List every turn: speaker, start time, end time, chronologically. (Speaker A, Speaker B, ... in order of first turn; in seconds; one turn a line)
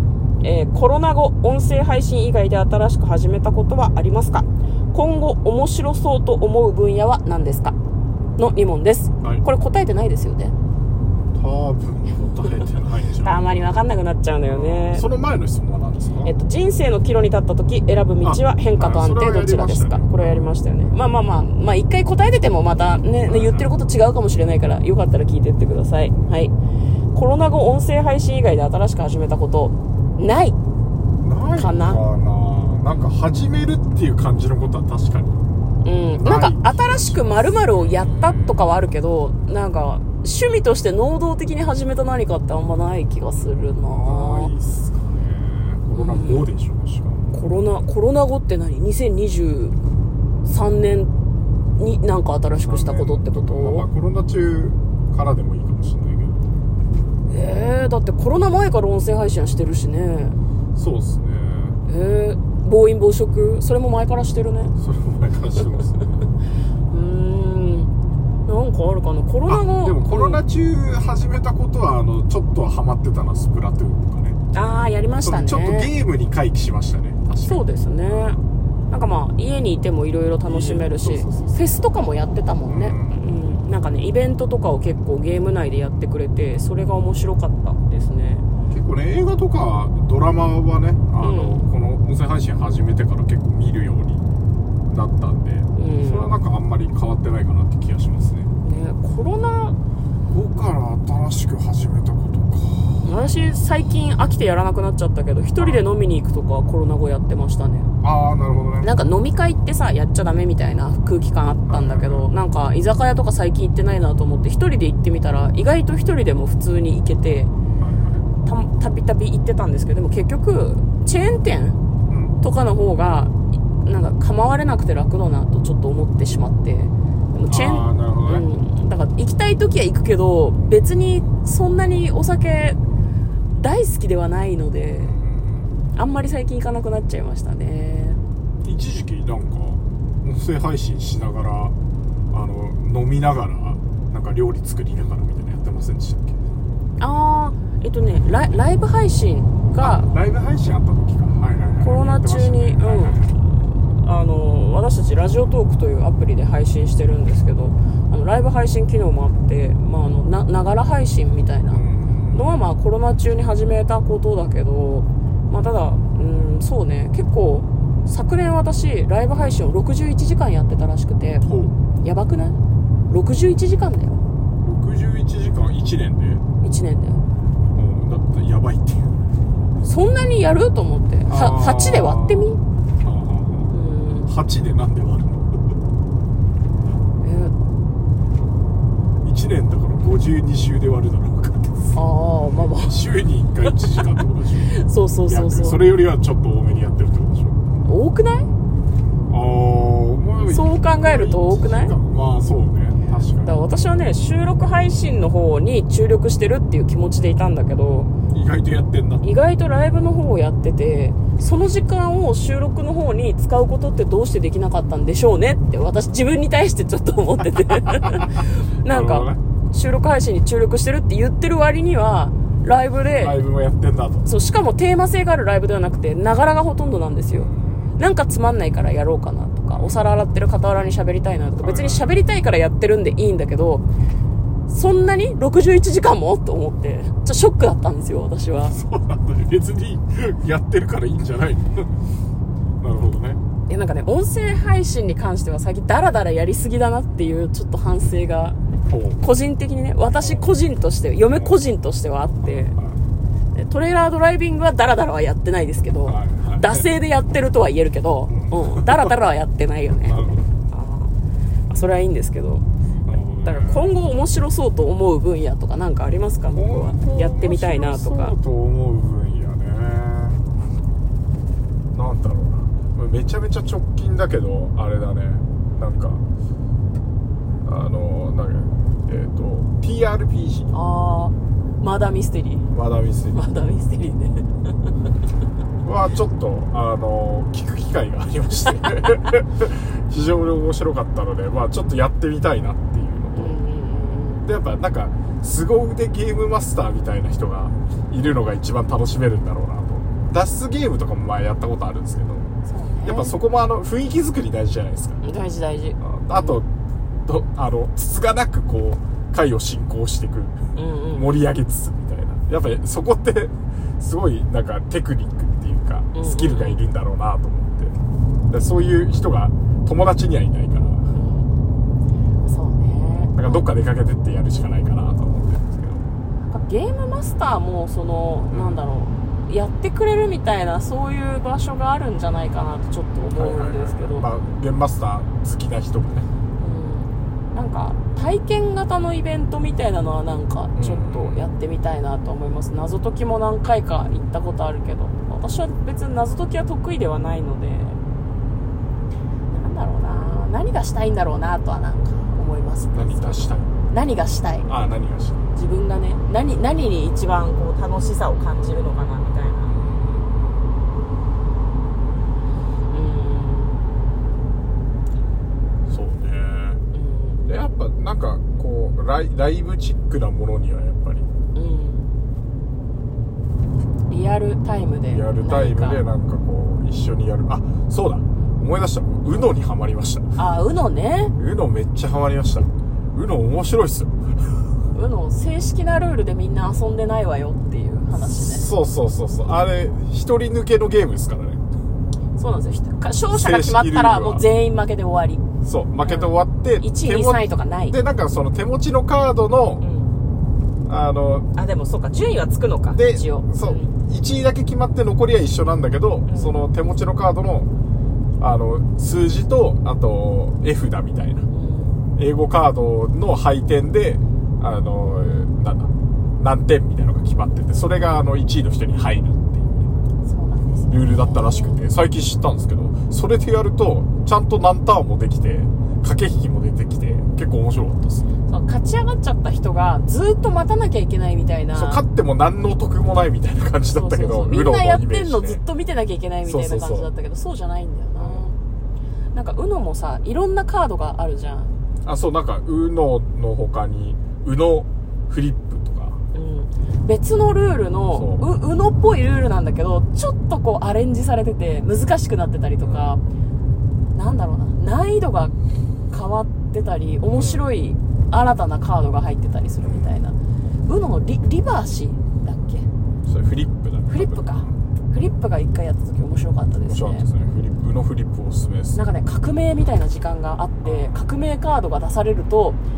Speaker A: 0.4-7.8
Speaker A: 8.4-10.6
Speaker B: 9.2-9.4
Speaker B: 11.3-13.4
Speaker A: 13.2-15.1
Speaker B: 14.5-16.3
Speaker A: 16.2-26.5
Speaker B: 18.2-20.5
Speaker B: 23.2-23.7
Speaker A: 27.1-30.6
Speaker B: 31.2-35.4
Speaker A: 31.6-32.0
Speaker A: 35.8-44.5
Speaker B: 36.1-38.6
Speaker B: 43.8-47.4
Speaker A: 46.0-46.5
Speaker A: 47.3-49.8
Speaker A: 50.5-51.1
Speaker A: 51.8-53.9
Speaker B: 52.6-56.5
Speaker A: 57.3-60.4
Speaker B: 60.8-61.8
Speaker A: 61.9-64.7
Speaker B: 64.8-66.3
Speaker A: 66.9-67.9
Speaker A: 68.5-70.4
Speaker B: 69.5-74.4
Speaker A: 74.5-75.9
Speaker B: 75.2-78.4
Speaker A: 77.4-78.4
Speaker A: 78.9-88.5
Speaker B: 80.5-81.6
Speaker B: 82.7-83.2
Speaker B: 88.7-94.2
Speaker A: 91.2-91.6
Speaker B: 94.9-98.5
Speaker A: 95.8-96.4
Speaker A: 98.6-99.8
Speaker B: 100.3-103.2
Speaker A: 103.0-107.9
Speaker B: 105.6-105.8
Speaker B: 108.0-108.9
Speaker A: 108.8-117.5
Speaker B: 111.7-112.3
Speaker B: 117.8-118.2
Speaker A: 118.5-121.8
Speaker B: 122.1-122.3
Speaker A: 122.4-132.8
Speaker B: 127.5-128.5
Speaker A: 133.6-135.1
Speaker B: 135.0-135.8
Speaker A: 135.9-138.2
Speaker B: 138.6-141.8
Speaker B: 142.3-146.4
Speaker A: 147.0-150.1
Speaker B: 149.8-153.3
Speaker A: 151.8-171.5
Speaker B: 161.7-162.5
Speaker B: 169.3-169.6
Speaker B: 171.4-171.8
Speaker A: 172.0-174.2
Speaker B: 174.6-176.4
Speaker A: 176.6-177.2
Speaker B: 177.7-179.2
Speaker A: 179.8-182.6
Speaker B: 181.3-183.7
Speaker A: 183.7-184.3
Speaker B: 184.2-185.6
Speaker A: 187.2-187.6
Speaker B: 189.2-192.0
Speaker A: 191.9-193.0
Speaker B: 192.5-197.8
Speaker A: 194.7-195.8
Speaker A: 197.8-198.5
Speaker B: 199.3-203.7
Speaker A: 200.5-201.9
Speaker A: 203.4-208.1
Speaker B: 207.9-209.2
Speaker A: 209.2-223.4
Speaker B: 217.8-218.3
Speaker B: 218.9-219.4
Speaker B: 223.0-224.3
Speaker A: 224.2-233.8
Speaker B: 227.3-227.9
Speaker B: 229.7-230.1
Speaker B: 231.6-232.2
Speaker A: 234.7-238.8
Speaker B: 238.6-241.9
Speaker B: 242.8-243.4
Speaker A: 243.7-248.6
Speaker B: 248.9-249.2
Speaker A: 249.2-252.8
Speaker B: 250.2-250.5
Speaker B: 251.2-251.6
Speaker B: 252.4-253.0
Speaker A: 253.5-261.1
Speaker B: 256.1-256.9
Speaker B: 258.3-259.1
Speaker B: 260.0-260.5
Speaker A: 261.7-262.6
Speaker B: 263.1-263.9
Speaker A: 263.4-268.3
Speaker B: 266.5-270.4
Speaker B: 271.9-276.2
Speaker B: 277.6-280.8
Speaker A: 280.7-282.7
Speaker B: 282.7-283.4
Speaker A: 283.3-284.9
Speaker B: 285.8-293.6
Speaker A: 293.4-294.4
Speaker B: 294.4-302.5
Speaker A: 302.7-303.4
Speaker B: 303.1-305.2
Speaker A: 305.2-306.6
Speaker B: 306.0-306.7
Speaker B: 307.2-310.6
Speaker A: 310.8-311.4
Speaker B: 311.1-318.0
Speaker A: 316.1-316.8
Speaker B: 318.5-321.1
Speaker A: 321.1-321.5
Speaker A: 322.4-323.7
Speaker B: 323.3-326.1
Speaker A: 326.4-334.3
Speaker B: 328.5-328.8
Speaker B: 333.3-336.3
Speaker A: 336.6-348.0
Speaker B: 340.8-341.5
Speaker A: 349.5-354.7
Speaker B: 352.9-353.8
Speaker B: 354.7-355.5
Speaker A: 355.6-359.8
Speaker B: 359.7-360.3
Speaker A: 362.9-363.8
Speaker B: 365.9-366.8
Speaker A: 366.9-367.4
Speaker B: 367.5-371.3
Speaker A: 371.5-372.1
Speaker A: 374.1-376.0
Speaker B: 375.1-380.3
Speaker A: 380.4-381.3
Speaker B: 381.4-384.6
Speaker A: 384.9-388.7
Speaker B: 388.2-391.6
Speaker A: 392.4-395.5
Speaker B: 393.3-394.5
Speaker B: 395.6-399.9
Speaker A: 396.0-398.0
Speaker A: 399.8-400.1
Speaker B: 400.9-401.5
Speaker A: 401.6-404.0
Speaker B: 402.9-407.7
Speaker A: 406.3-406.6
Speaker B: 408.4-411.5
Speaker A: 411.5-412.0
Speaker B: 412.2-419.8
Speaker A: 420.2-421.8
Speaker B: 420.9-428.3
Speaker A: 428.5-432.0
Speaker B: 431.7-435.6
Speaker A: 433.9-438.6
Speaker B: 436.4-437.1
Speaker B: 438.2-438.5
Speaker A: 439.3-441.7
Speaker B: 442.0-446.2
Speaker A: 446.3-453.2
Speaker B: 448.1-448.5
Speaker B: 452.8-453.2
Speaker A: 454.1-455.6
Speaker A: 456.1-462.9
Speaker B: 457.3-457.6
Speaker B: 459.8-460.2
Speaker B: 463.3-464.7
Speaker A: 464.1-467.3
Speaker B: 466.9-469.0
Speaker A: 468.9-472.8
Speaker B: 470.8-471.2